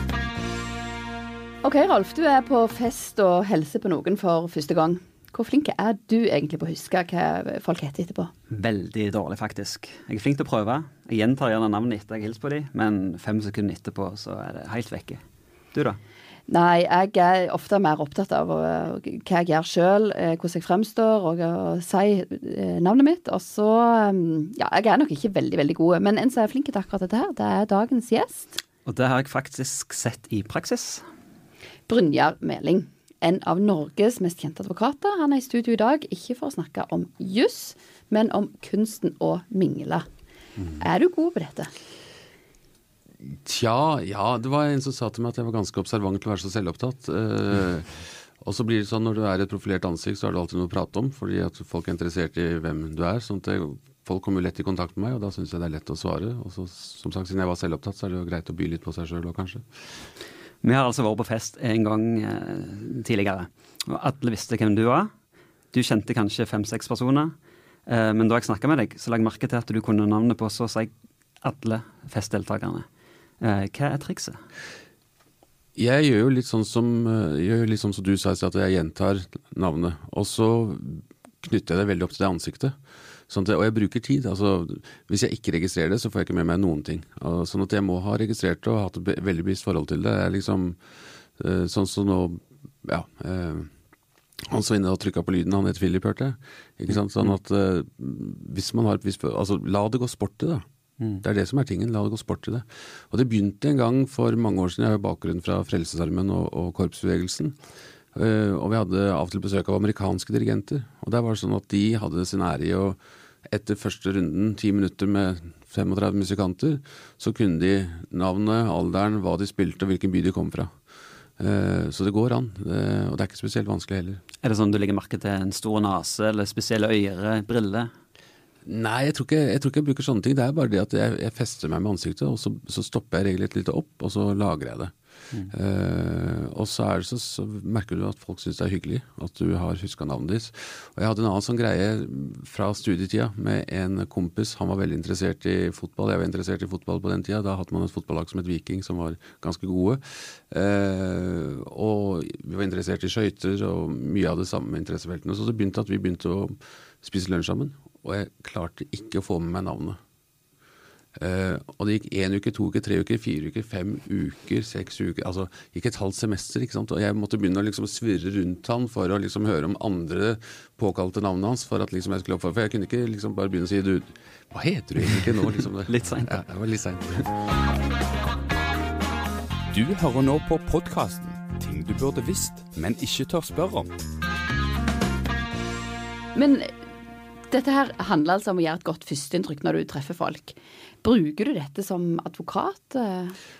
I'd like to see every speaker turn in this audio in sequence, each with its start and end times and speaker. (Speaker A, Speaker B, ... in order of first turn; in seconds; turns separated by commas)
Speaker A: 1.6-8.3, Speaker B: 8.5-15.2, Speaker B: 15.7-16.0, Speaker A: 16.5-28.6, Speaker B: 28.9-31.0, Speaker A: 31.9-40.1, Speaker A: 40.8-41.7, Speaker C: 43.5-59.6, Speaker B: 60.6-65.1, Speaker B: 65.7-67.3, Speaker B: 67.9-70.9, Speaker B: 71.4-72.9, Speaker B: 73.4-74.4, Speaker C: 75.8-82.8, Speaker C: 83.3-90.8, Speaker C: 91.4-93.7, Speaker C: 94.5-100.6, Speaker C: 101.2-107.6, Speaker C: 108.1-120.7, Speaker C: 121.4-124.2, Speaker B: 124.4-127.9, Speaker C: 128.7-134.9, Speaker C: 135.5-160.0, Speaker C: 161.2-177.3, Speaker B: 175.9-176.4, Speaker D: 179.7-183.9, Speaker A: 186.3-186.7, Speaker A: 187.5-193.4